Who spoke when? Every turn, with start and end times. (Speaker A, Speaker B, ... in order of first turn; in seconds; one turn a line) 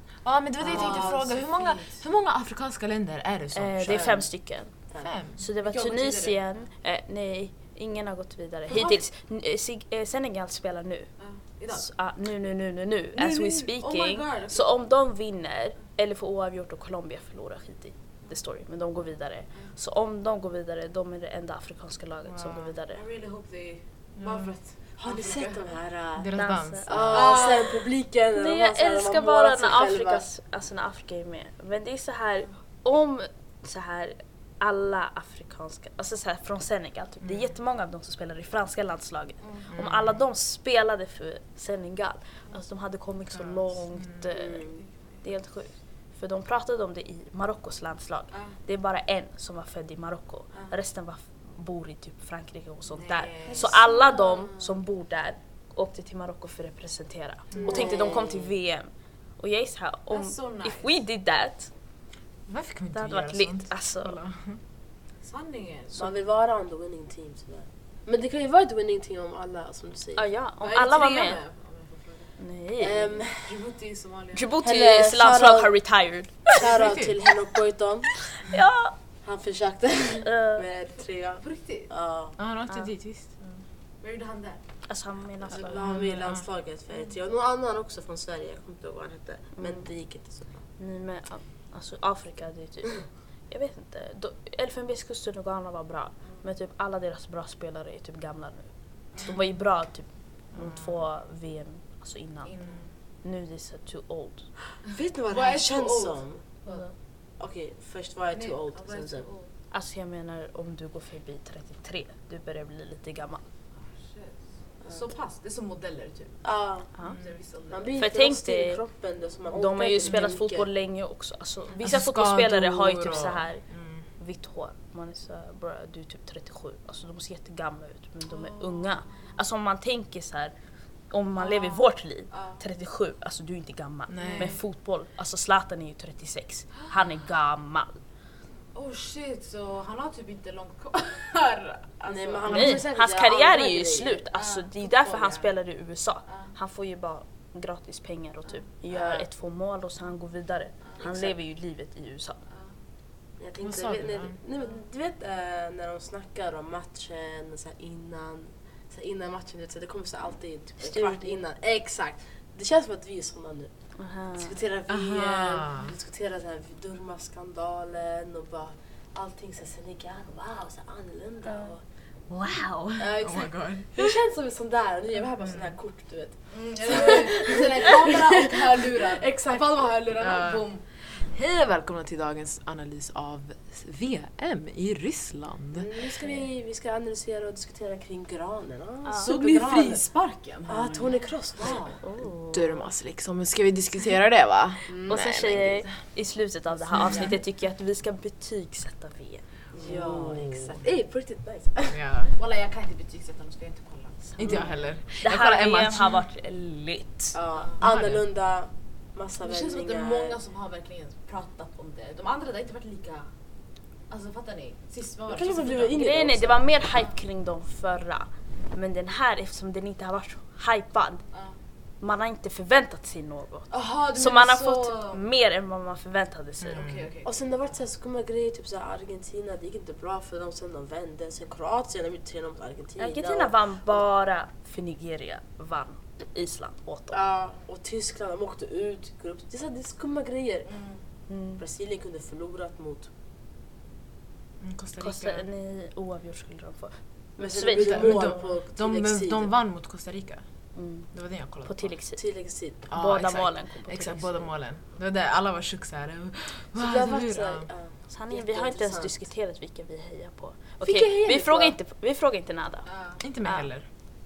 Speaker A: 0.2-4.2
Speaker B: 0.6-1.3
Speaker C: 0.6-2.0
Speaker D: 3.5-4.7
Speaker B: 3.8-4.2
Speaker A: 5.0-5.4
Speaker D: 5.4-11.1
Speaker C: 5.6-6.4
Speaker C: 11.2-11.9
Speaker D: 11.7-23.0
Speaker C: 13.2-14.7
Speaker C: 22.9-25.8
Speaker A: 24.2-24.5
Speaker B: 25.0-26.4
Speaker A: 26.2-27.4
Speaker D: 26.4-27.4
Speaker B: 26.9-30.2
Speaker C: 27.1-27.9
Speaker D: 28.4-61.7
Speaker A: 37.2-37.5
Speaker A: 39.7-40.2
Speaker A: 43.4-44.2
Speaker B: 44.3-44.8
Speaker C: 52.9-53.8
Speaker B: 53.5-54.6
Speaker B: 57.6-58.5
Speaker C: 60.1-61.0
Speaker A: 62.5-64.6
Speaker D: 62.9-64.2
Speaker C: 65.2-66.1
Speaker B: 65.9-70.3
Speaker D: 70.2-71.4
Speaker C: 70.6-72.4
Speaker D: 72.4-73.2
Speaker B: 72.8-73.6
Speaker C: 73.4-74.5
Speaker D: 74.3-76.7
Speaker B: 74.6-75.7
Speaker B: 76.5-78.1
Speaker A: 76.6-77.2
Speaker D: 78.3-78.9
Speaker B: 79.2-82.4
Speaker D: 80.2-80.7
Speaker C: 81.4-81.9
Speaker A: 82.4-83.4
Speaker C: 84.0-84.6
Speaker D: 84.9-85.9
Speaker B: 85.4-90.6
Speaker A: 85.8-86.4
Speaker D: 89.6-89.8
Speaker D: 90.8-102.6
Speaker A: 100.5-100.9
Speaker C: 102.5-102.9
Speaker D: 103.2-104.5
Speaker B: 104.8-106.4
Speaker C: 105.3-106.9
Speaker B: 107.4-109.3
Speaker C: 108.3-109.5
Speaker D: 109.7-113.4
Speaker C: 113.9-116.4
Speaker B: 116.4-116.9
Speaker C: 117.0-118.0
Speaker B: 117.7-120.7
Speaker D: 118.0-118.8
Speaker D: 119.5-123.6
Speaker A: 121.8-124.0
Speaker D: 124.2-130.5
Speaker C: 128.3-129.3
Speaker D: 131.1-137.9
Speaker C: 131.4-132.6
Speaker A: 134.1-134.6
Speaker C: 134.2-134.6
Speaker C: 138.7-142.7
Speaker B: 142.0-144.2
Speaker D: 142.5-152.4
Speaker C: 144.3-145.5
Speaker B: 148.9-149.3
Speaker B: 151.0-151.4
Speaker B: 153.4-163.7
Speaker A: 153.6-154.3
Speaker D: 160.8-161.4
Speaker D: 164.0-164.6
Speaker B: 164.4-171.8
Speaker A: 164.9-165.9
Speaker A: 172.3-174.2
Speaker B: 173.0-180.1
Speaker A: 175.4-175.7
Speaker C: 176.5-180.8
Speaker A: 180.2-185.9
Speaker B: 185.7-190.0
Speaker D: 189.1-189.3
Speaker C: 189.2-192.0
Speaker B: 190.7-192.0
Speaker D: 192.0-192.8
Speaker A: 192.5-195.8
Speaker B: 194.9-195.3
Speaker D: 195.1-199.4
Speaker C: 196.9-197.4
Speaker B: 199.7-202.0
Speaker C: 199.8-200.1
Speaker A: 200.1-200.8
Speaker A: 201.9-202.3
Speaker C: 202.4-204.4
Speaker D: 204.4-207.4
Speaker A: 204.4-206.2
Speaker B: 207.3-210.4
Speaker A: 207.8-208.2
Speaker C: 209.4-213.3
Speaker C: 214.1-216.0
Speaker B: 215.3-216.7
Speaker D: 215.9-221.2
Speaker D: 222.0-226.9
Speaker C: 223.7-225.2
Speaker A: 226.6-227.1
Speaker C: 226.7-227.3
Speaker B: 227.2-234.0
Speaker D: 233.0-237.2
Speaker B: 237.1-240.7
Speaker C: 240.7-241.0
Speaker D: 241.3-241.6
Speaker B: 241.6-243.1
Speaker A: 244.6-245.4
Speaker D: 245.0-248.4
Speaker B: 247.4-249.5
Speaker A: 247.8-250.4
Speaker D: 250.8-251.1
Speaker A: 251.1-251.9
Speaker D: 251.7-252.2
Speaker B: 252.2-252.9
Speaker A: 252.9-257.7
Speaker D: 252.9-254.5
Speaker B: 256.8-259.1
Speaker D: 258.1-262.9
Speaker B: 260.8-261.8
Speaker C: 262.9-263.2
Speaker A: 263.2-263.9
Speaker D: 263.4-263.7